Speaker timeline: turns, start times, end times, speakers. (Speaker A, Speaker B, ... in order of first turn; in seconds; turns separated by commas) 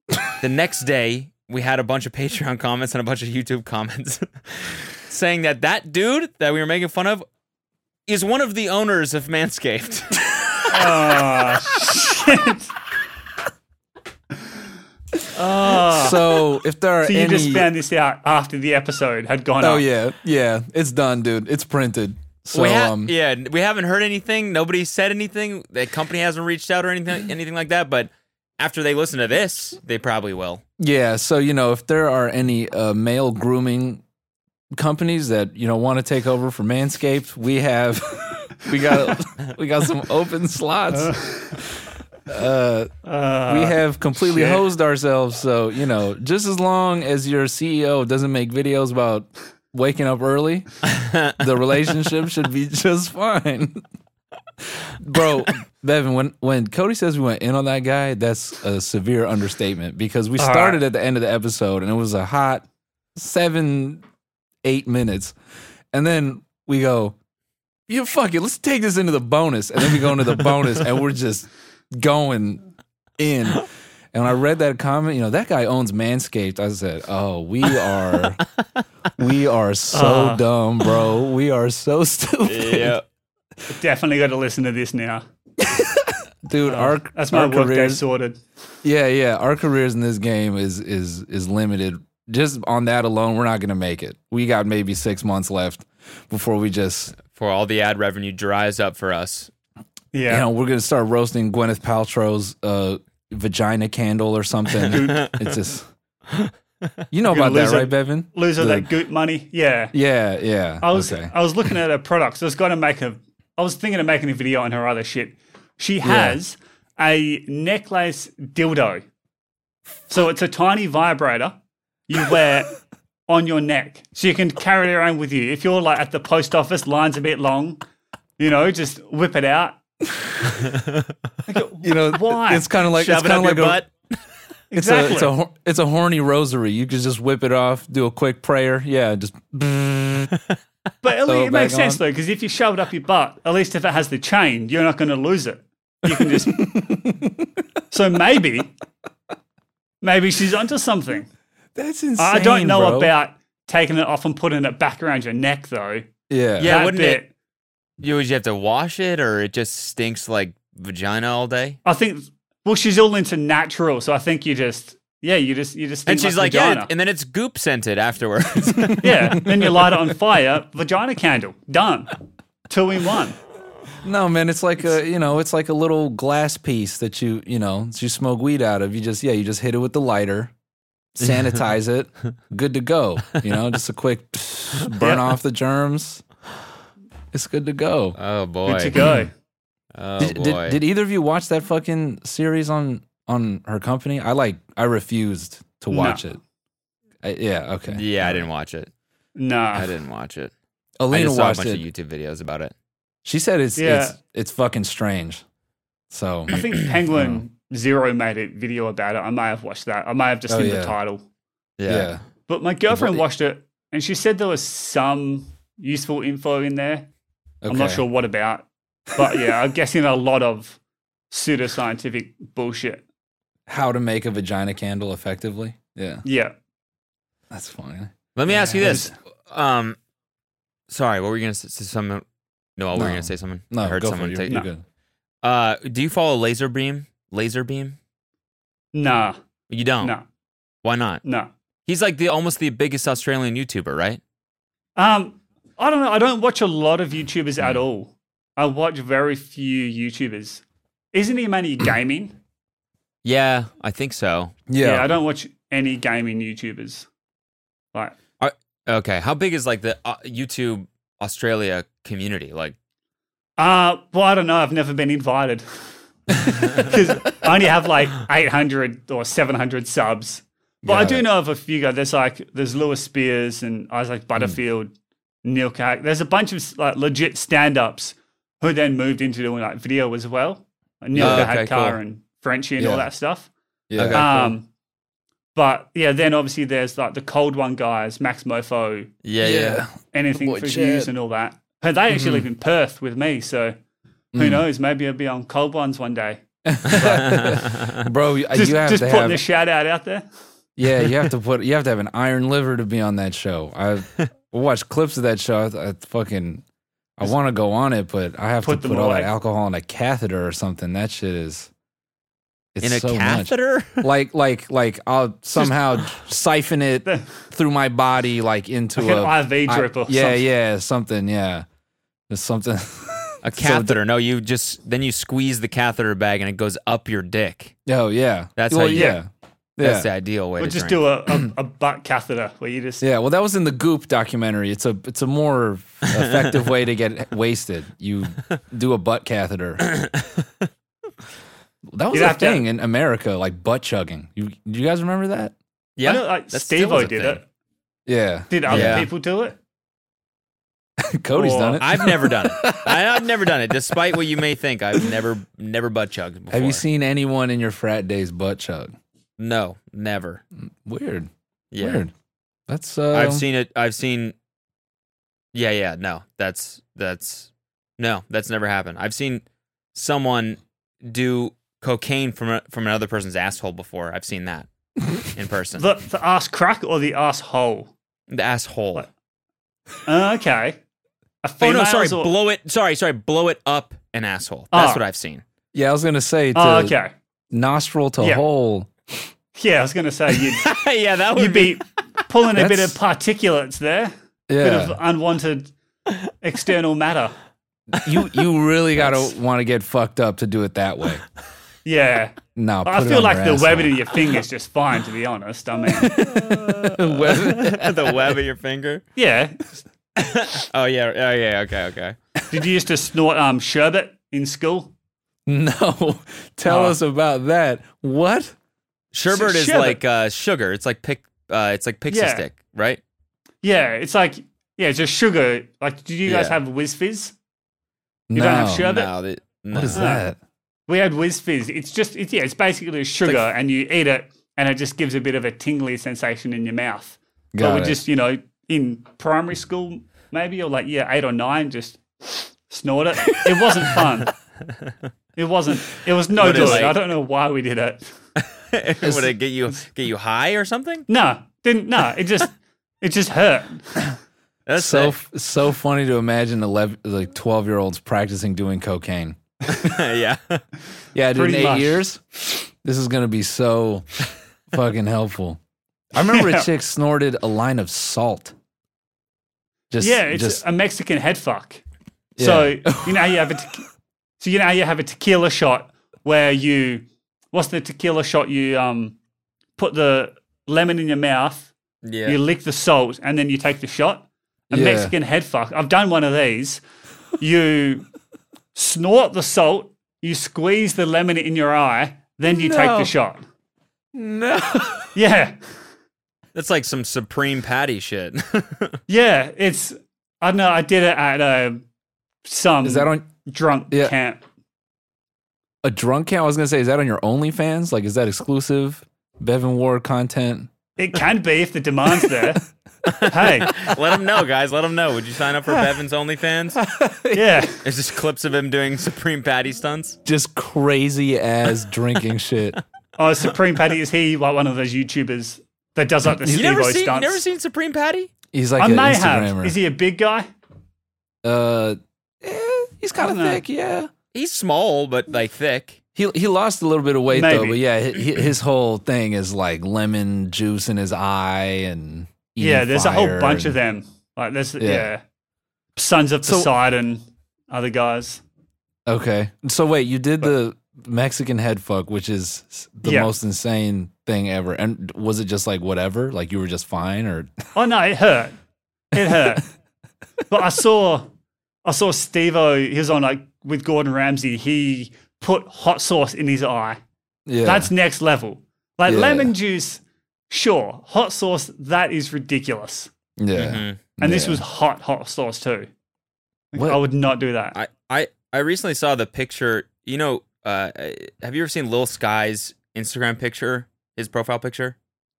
Speaker A: 0.4-7.3, Speaker A: 8.1-10.2, Speaker B: 10.7-12.7, Speaker B: 15.3-16.5, Speaker C: 15.7-17.7, Speaker B: 17.0-19.8, Speaker C: 19.6-23.1, Speaker A: 22.5-30.6, Speaker C: 30.8-34.0, Speaker C: 34.7-42.9, Speaker B: 40.9-41.6, Speaker B: 43.0-44.6, Speaker C: 43.5-53.8, Speaker A: 50.9-51.3, Speaker C: 54.7-64.0, Speaker B: 60.4-60.8, Speaker C: 64.6-65.3, Speaker C: 65.9-67.1, Speaker C: 67.9-72.6, Speaker C: 73.2-78.4, Speaker C: 79.2-83.0, Speaker B: 79.9-80.4, Speaker A: 82.4-83.0, Speaker B: 83.7-85.2, Speaker C: 85.6-88.0, Speaker B: 86.6-88.4, Speaker C: 88.8-97.1, Speaker A: 97.2-99.5, Speaker B: 100.1-100.5, Speaker C: 100.3-105.9, Speaker A: 104.8-105.4, Speaker B: 104.9-105.3, Speaker C: 107.1-108.9, Speaker B: 107.3-109.9, Speaker C: 109.9-111.3, Speaker B: 110.8-119.0, Speaker C: 116.0-116.4, Speaker B: 120.1-121.6, Speaker B: 122.1-122.7, Speaker B: 123.3-127.8, Speaker B: 128.4-129.8, Speaker B: 131.5-132.7, Speaker C: 131.8-133.8, Speaker A: 132.9-133.9, Speaker B: 134.7-135.3, Speaker C: 134.7-140.3, Speaker B: 141.0-146.7, Speaker C: 141.3-142.0, Speaker C: 146.1-147.5, Speaker B: 147.9-148.7, Speaker B: 150.0-151.3, Speaker C: 151.8-153.1, Speaker B: 152.2-156.1, Speaker C: 156.3-156.7, Speaker A: 156.6-157.2, Speaker B: 156.6-157.3, Speaker A: 158.0-161.8, Speaker B: 161.8-166.9, Speaker A: 166.1-169.6, Speaker B: 169.0-172.2, Speaker C: 169.0-169.5, Speaker B: 172.7-173.4, Speaker C: 174.0-180.5, Speaker C: 181.2-186.2, Speaker B: 185.0-185.3, Speaker C: 187.3-188.2, Speaker A: 188.2-189.2, Speaker B: 188.7-189.3, Speaker C: 189.0-189.3, Speaker A: 189.9-190.8, Speaker C: 190.2-196.4, Speaker B: 195.9-196.2, Speaker C: 197.2-198.4, Speaker A: 197.9-198.9, Speaker B: 199.4-199.9, Speaker A: 199.7-200.5, Speaker C: 201.0-201.8, Speaker A: 201.1-202.7, Speaker C: 203.2-205.4, Speaker B: 203.8-204.2, Speaker C: 206.1-206.6, Speaker B: 206.5-211.2, Speaker C: 207.1-207.4, Speaker C: 210.5-210.9, Speaker A: 211.8-212.1, Speaker C: 211.9-212.2, Speaker B: 212.4-217.1, Speaker C: 212.9-213.2, Speaker C: 217.6-218.0, Speaker B: 217.7-220.8, Speaker B: 221.3-223.0, Speaker C: 223.7-226.2, Speaker B: 226.2-226.6, Speaker C: 227.5-229.1, Speaker A: 228.3-230.0, Speaker B: 228.8-229.1, Speaker A: 230.9-232.2, Speaker A: 232.8-234.6, Speaker C: 232.9-234.8, Speaker A: 235.4-238.0, Speaker B: 238.9-239.4, Speaker A: 239.7-240.2, Speaker A: 240.8-241.2, Speaker B: 241.2-241.5, Speaker A: 241.9-244.2, Speaker B: 245.0-252.4, Speaker A: 253.2-254.6, Speaker C: 254.7-255.1, Speaker B: 254.8-257.1, Speaker A: 258.4-262.8, Speaker B: 263.6-265.6, Speaker B: 266.3-274.9, Speaker C: 270.8-271.3, Speaker B: 275.4-283.5, Speaker C: 281.1-281.5, Speaker A: 281.1-282.0, Speaker C: 282.8-283.1, Speaker C: 283.9-284.5, Speaker A: 283.9-284.3, Speaker B: 284.1-284.7, Speaker B: 285.6-289.1, Speaker A: 289.2-289.9, Speaker C: 289.4-291.1, Speaker B: 290.1-293.8, Speaker C: 292.1-292.4, Speaker C: 294.3-294.6, Speaker B: 294.3-297.3, Speaker C: 296.6-299.4, Speaker A: 296.9-298.0, Speaker B: 298.5-300.3, Speaker C: 300.8-306.6, Speaker C: 307.2-311.7, Speaker B: 308.6-309.3, Speaker C: 312.7-321.6, Speaker A: 312.8-314.1, Speaker B: 317.1-317.3, Speaker B: 318.9-320.4, Speaker C: 322.3-324.0, Speaker A: 323.4-327.7, Speaker C: 327.9-330.1, Speaker A: 328.6-329.2, Speaker B: 328.9-329.2, Speaker A: 329.8-331.0, Speaker B: 330.6-333.1, Speaker C: 333.0-339.8, Speaker A: 339.8-340.4, Speaker C: 341.9-345.6, Speaker B: 342.1-342.6, Speaker A: 346.0-347.4, Speaker B: 346.0-347.4, Speaker C: 348.1-349.1, Speaker B: 348.5-349.6, Speaker A: 348.7-349.1, Speaker C: 351.0-353.3, Speaker B: 351.3-351.8, Speaker A: 351.8-356.8, Speaker C: 356.5-358.9, Speaker A: 359.4-360.4, Speaker C: 360.8-362.1, Speaker A: 361.7-362.1, Speaker C: 362.7-363.4, Speaker A: 363.1-364.3, Speaker A: 365.5-374.7, Speaker A: 375.3-375.9, Speaker B: 375.8-377.9, Speaker A: 378.3-379.1, Speaker B: 380.1-380.8, Speaker B: 381.4-382.3, Speaker A: 381.6-385.4, Speaker B: 384.7-385.0, Speaker C: 385.7-386.9, Speaker B: 386.6-387.1, Speaker C: 387.5-389.3, Speaker B: 388.2-388.4, Speaker B: 389.5-390.7, Speaker A: 390.4-391.8, Speaker B: 391.3-395.7, Speaker C: 392.6-393.0, Speaker C: 394.5-395.0, Speaker B: 396.4-397.4, Speaker C: 397.9-401.2, Speaker B: 401.8-406.2, Speaker C: 402.6-404.0, Speaker C: 405.9-408.3, Speaker A: 406.6-409.0, Speaker B: 409.1-409.8, Speaker A: 410.2-412.1, Speaker B: 412.5-414.9, Speaker C: 415.5-418.6, Speaker B: 416.6-417.0, Speaker A: 419.1-423.0, Speaker B: 419.3-420.0, Speaker B: 422.1-422.5, Speaker B: 423.6-427.3, Speaker A: 426.2-426.6, Speaker C: 428.3-428.9, Speaker B: 428.3-429.1, Speaker A: 428.8-430.2, Speaker C: 429.7-430.4, Speaker B: 429.9-430.2, Speaker B: 430.9-444.4, Speaker C: 437.5-438.0, Speaker C: 443.3-443.9, Speaker B: 445.4-448.1, Speaker A: 446.3-447.0, Speaker C: 446.4-446.9, Speaker A: 448.4-451.1, Speaker B: 451.1-454.1, Speaker A: 454.7-455.1, Speaker C: 454.8-459.4, Speaker A: 459.7-460.6, Speaker C: 461.1-462.2, Speaker B: 461.3-462.0, Speaker C: 462.8-464.1, Speaker C: 464.7-465.6, Speaker C: 466.1-468.5, Speaker B: 466.2-466.7, Speaker C: 469.9-470.6, Speaker B: 470.0-471.8, Speaker B: 472.4-473.8, Speaker C: 472.4-473.3, Speaker B: 474.4-479.1, Speaker B: 479.8-481.7, Speaker A: 482.0-482.4, Speaker B: 482.3-486.8, Speaker C: 484.7-485.1, Speaker B: 487.4-488.1, Speaker B: 488.7-493.4, Speaker C: 492.5-493.1, Speaker C: 494.1-495.1, Speaker B: 495.1-495.6, Speaker A: 496.5-499.0, Speaker B: 499.1-501.8, Speaker B: 502.4-504.4, Speaker C: 502.8-503.3, Speaker C: 505.8-510.7, Speaker B: 511.0-512.6, Speaker A: 513.0-516.8, Speaker B: 513.3-513.8, Speaker C: 516.8-517.7, Speaker B: 517.3-517.8, Speaker A: 517.8-520.2, Speaker C: 520.2-522.8, Speaker B: 523.2-527.4, Speaker C: 526.3-526.6, Speaker A: 526.5-528.3, Speaker C: 528.5-529.8, Speaker B: 528.8-530.5, Speaker C: 531.4-534.1, Speaker B: 533.1-533.6, Speaker A: 534.3-536.0, Speaker C: 536.1-543.7, Speaker B: 537.3-537.8, Speaker B: 542.6-545.2, Speaker C: 544.8-545.1, Speaker B: 546.0-548.4, Speaker C: 546.4-546.7, Speaker C: 549.1-557.6, Speaker B: 553.0-553.3, Speaker B: 557.7-558.5, Speaker B: 559.1-559.6, Speaker B: 560.5-561.3, Speaker B: 561.8-567.0, Speaker C: 567.5-567.9, Speaker B: 567.6-573.1, Speaker C: 569.0-569.5, Speaker C: 573.4-574.6, Speaker A: 573.5-574.0, Speaker B: 574.2-575.9, Speaker B: 576.7-577.8, Speaker C: 576.7-577.0, Speaker A: 577.7-585.0